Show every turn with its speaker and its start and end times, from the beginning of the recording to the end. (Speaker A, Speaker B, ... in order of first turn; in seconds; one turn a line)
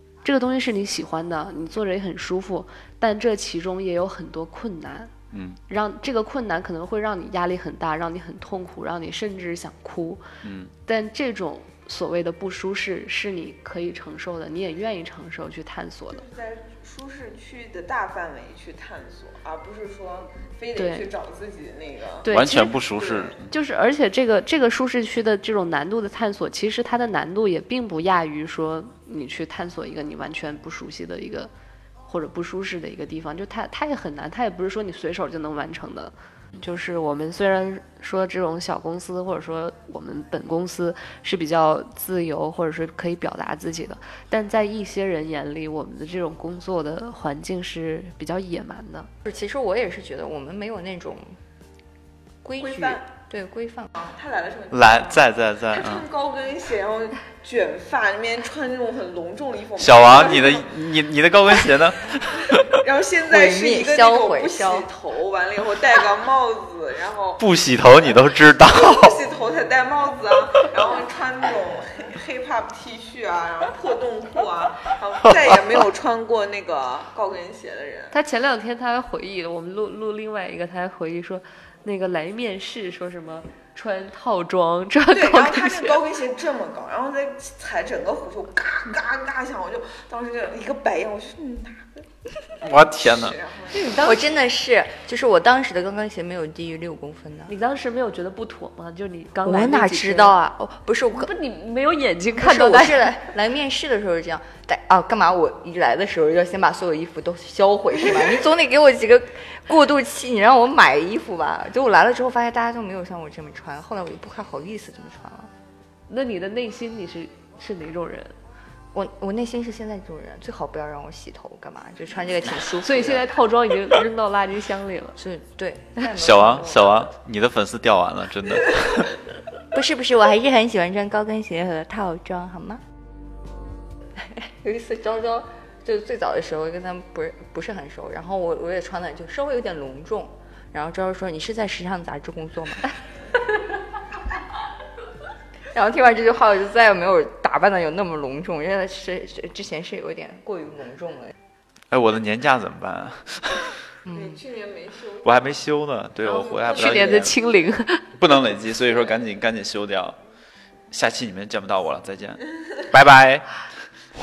Speaker A: 0.2-5.1
Speaker B: 5.3-5.6
Speaker A: 5.7-10.2
Speaker B: 10.4-10.7
Speaker A: 10.9-16.2
Speaker C: 16.1-22.3
Speaker A: 20.8-21.1
Speaker A: 22.2-22.8
Speaker B: 22.3-23.5
Speaker C: 23.0-23.4
Speaker A: 23.5-31.5
Speaker A: 32.1-49.1
Speaker D: 49.2-51.4
Speaker D: 52.4-53.9
Speaker C: 52.6-53.1
Speaker C: 54.0-60.7
Speaker B: 54.7-56.1
Speaker B: 59.8-62.8
Speaker C: 62.8-67.4
Speaker D: 63.3-64.9
Speaker B: 67.4-69.2
Speaker C: 68.7-78.1
Speaker B: 75.2-75.6
Speaker A: 78.1-86.0
Speaker C: 85.1-92.1
Speaker B: 92.6-93.4
Speaker C: 93.0-94.1
Speaker D: 93.9-97.5
Speaker A: 97.5-100.3
Speaker D: 99.4-101.3
Speaker A: 101.1-103.1
Speaker D: 102.4-115.5
Speaker A: 116.1-118.3
Speaker D: 118.9-123.3
Speaker A: 122.8-125.2
Speaker D: 125.2-127.0
Speaker B: 126.2-129.2
Speaker D: 129.7-132.8
Speaker D: 134.2-142.9
Speaker D: 145.7-151.3
Speaker B: 151.9-153.7
Speaker D: 154.1-154.4
Speaker C: 154.1-155.4
Speaker B: 155.2-157.4
Speaker A: 156.2-158.1
Speaker C: 156.6-157.1
Speaker B: 158.2-160.2
Speaker B: 160.9-163.6